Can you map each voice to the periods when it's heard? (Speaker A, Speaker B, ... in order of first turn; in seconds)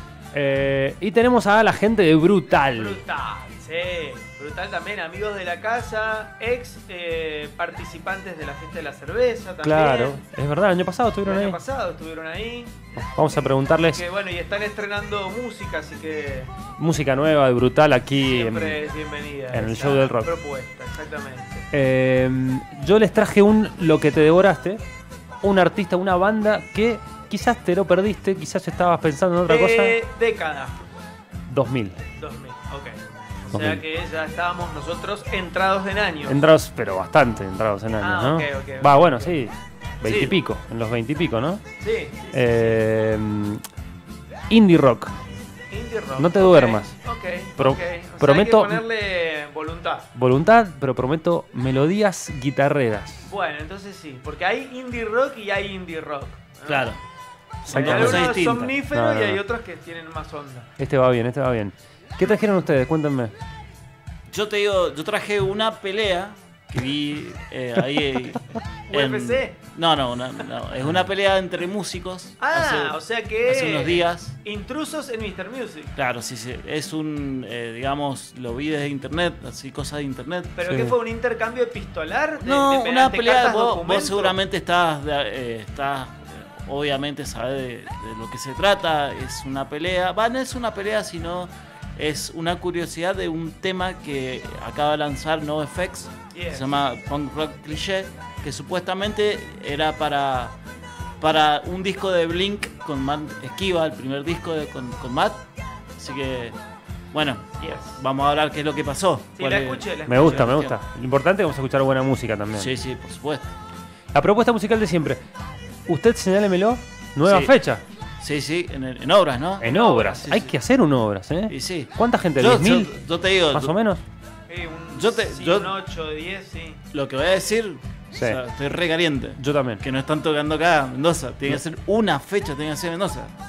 Speaker A: 0.3-3.0, 9.6-11.6, 13.0-14.0, 16.8-18.8, 19.5-20.3, 21.7-24.8, 25.4-30.0, 31.5-32.0, 33.5-33.8, 36.2-41.6, 42.3-43.6, 44.5-45.1, 46.2-46.9, 47.6-48.9, 50.1-53.3, 56.7-56.9, 57.7-59.4, 60.8-63.3, 110.1-112.7, 114.1-115.2, 115.9-117.8, 119.6-123.0, 123.5-124.0, 128.2-128.4, 129.4-129.8
Speaker B: 2.7-10.2, 11.3-12.8, 13.9-16.5, 18.2-21.7, 29.5-30.8, 32.2-36.4, 38.0-39.4, 41.8-42.8, 45.7-50.1, 53.3-56.9, 57.8-60.7, 68.9-69.6, 72.4-75.9, 80.6-84.4, 96.3-96.7, 107.6-108.0, 109.4-110.8, 119.6-120.4, 124.5-126.8
Speaker C: 40.0-40.3, 56.7-57.0, 57.7-58.7, 64.3-74.4, 76.0-80.9, 82.4-100.5, 101.2-105.4, 106.0-106.6, 107.1-109.9, 112.5-113.5, 117.2-117.5, 118.2-119.7, 121.5-123.7, 124.9-125.8, 126.9-133.3